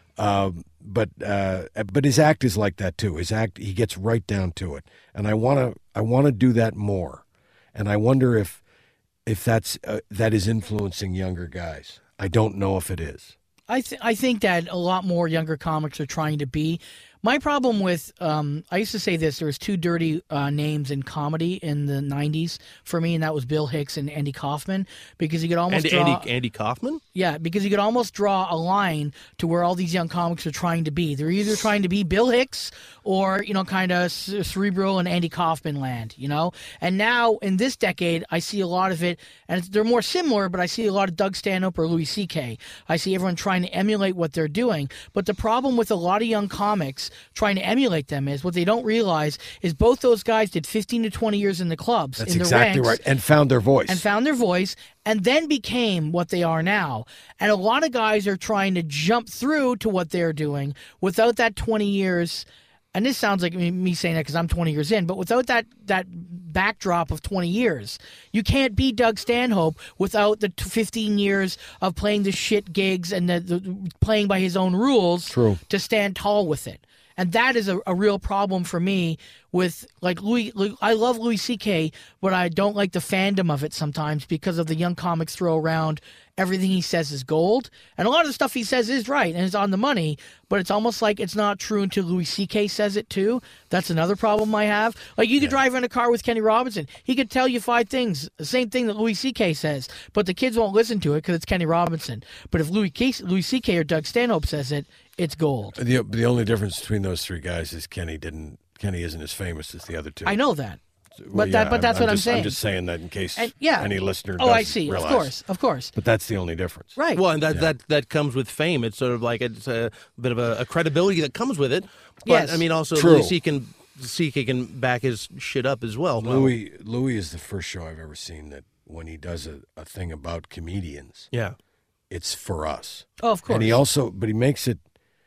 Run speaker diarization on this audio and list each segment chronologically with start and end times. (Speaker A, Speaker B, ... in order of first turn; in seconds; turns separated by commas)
Speaker A: 0.2-8.6, Speaker A: 9.2-13.3, Speaker B: 13.7-26.3, Speaker C: 25.7-27.0, Speaker B: 27.1-53.0, Speaker A: 52.2-54.0, Speaker B: 53.9-105.8, Speaker A: 75.3-75.6, Speaker A: 105.7-110.4, Speaker B: 110.2-110.8, Speaker A: 111.2-115.4, Speaker B: 111.3-112.6, Speaker B: 113.3-115.9, Speaker A: 115.9-117.0, Speaker B: 117.0-117.2, Speaker C: 117.1-126.5, Speaker B: 122.2-122.6, Speaker A: 122.9-123.3, Speaker A: 126.2-131.3, Speaker A: 132.1-134.8, Speaker B: 133.2-133.8